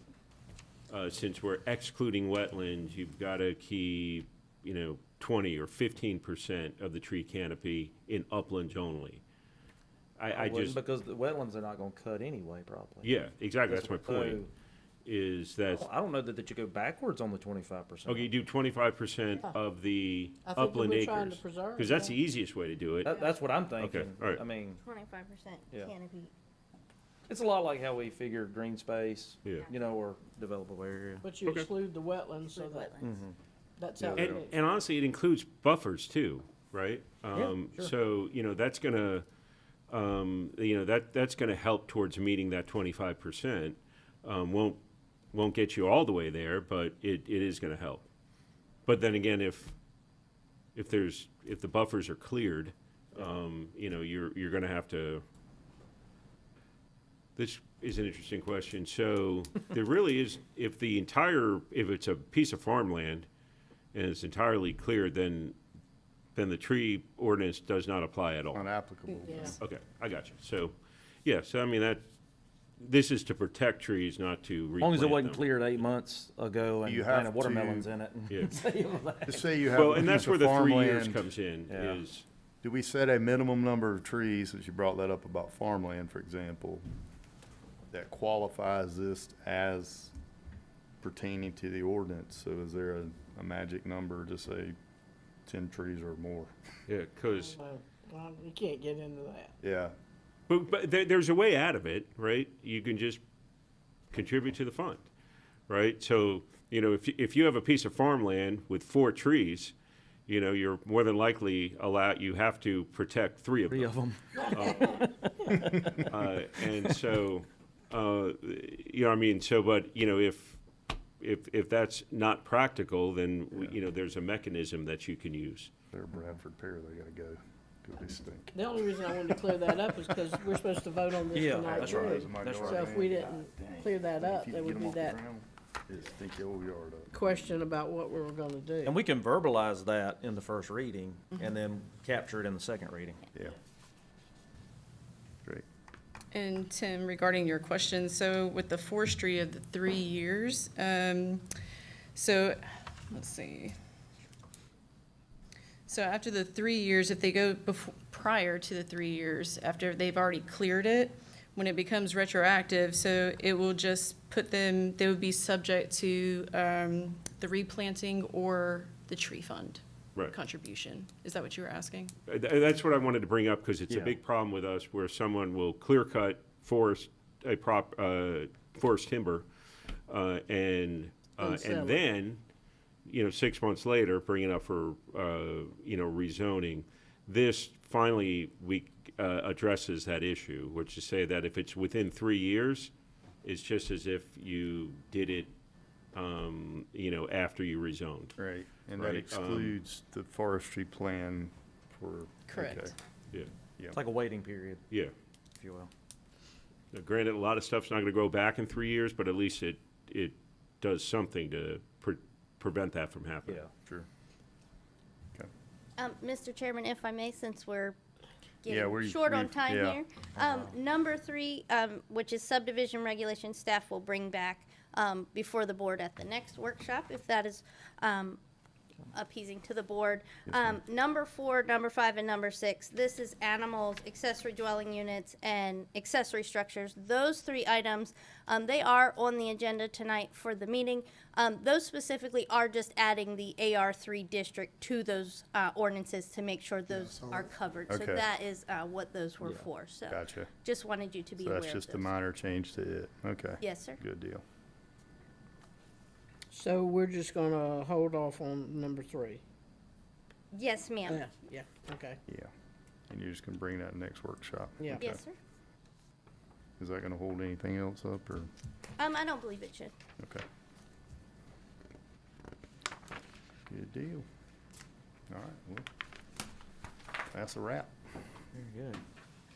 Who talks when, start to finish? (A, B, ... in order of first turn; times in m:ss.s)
0:00.9-0:09.2 A
0:10.2-0:10.8 A
0:10.3-0:14.5 B
0:13.0-0:14.4 A
0:15.0-0:15.9 A
0:15.6-0:18.3 B
0:18.1-0:23.1 A
0:20.4-0:22.2 C
0:23.0-0:24.8 B
0:23.8-0:24.4 A
0:24.8-0:26.3 D
0:27.3-0:31.3 B
0:31.2-0:33.0 C
0:32.5-0:33.1 D
0:33.0-0:33.4 B
0:33.8-0:34.5 C
0:34.0-0:34.5 E
0:34.2-0:39.2 A
0:37.3-0:37.9 B
0:39.9-0:44.8 A
0:45.3-0:48.0 A
0:48.8-0:49.8 A
0:50.7-0:55.2 A
0:57.4-1:03.3 A
1:03.9-1:05.6 A
1:06.3-1:08.6 A
1:08.5-1:09.6 E
1:09.3-1:09.6 C
1:09.6-1:12.0 A
1:12.8-1:15.4 A
1:14.8-1:19.5 B
1:16.8-1:17.9 E
1:18.3-1:18.6 A
1:19.3-1:21.2 E
1:19.7-1:22.3 A
1:21.7-1:22.0 B
1:22.6-1:26.8 E
1:27.9-1:30.1 E
1:31.0-1:34.8 E
1:35.4-1:36.5 E
1:36.9-1:37.6 A
1:37.3-1:39.5 C
1:39.6-1:40.0 E
1:40.5-1:43.2 A
1:44.1-1:45.0 A
1:45.7-1:49.7 A
1:50.3-1:55.0 A
1:53.7-1:56.3 B
1:55.9-2:00.6 A
2:01.2-2:05.7 A
2:05.9-2:08.5 E
2:08.5-2:15.2 C
2:11.3-2:13.1 B
2:11.4-2:17.2 E
2:17.1-2:19.0 C
2:18.8-2:23.2 B
2:26.3-2:31.5 F
2:32.1-2:33.7 F
2:35.9-2:52.1 F
2:52.3-2:59.5 A
2:53.9-2:54.2 B
3:00.1-3:02.4 A
3:01.4-3:02.0 C
3:03.0-3:12.9 A
3:13.4-3:15.5 A
3:16.1-3:18.3 A
3:18.4-3:22.9 E
3:19.0-3:19.8 A
3:22.5-3:22.9 F
3:23.9-3:24.8 B
3:25.6-3:25.9 B
3:26.9-3:33.6 A
3:36.0-3:38.0 D
3:38.6-3:48.4 D
3:38.7-3:40.0 E
3:40.4-3:40.7 B
3:49.1-4:12.1 D
3:50.5-3:50.8 E
4:07.4-4:08.2 E
4:10.1-4:10.5 E
4:11.4-4:14.4 E
4:13.6-4:14.0 D
4:16.5-4:19.4 C
4:20.5-4:21.2 D
4:21.1-4:22.2 C
4:23.1-4:25.2 E
4:24.8-4:25.1 C
4:25.0-4:25.4 D
4:26.8-4:28.5 E
4:29.0-4:29.9 D
4:33.7-4:34.2 E
4:35.3-4:35.9 E
4:37.3-4:37.9 E
4:38.5-4:39.0 B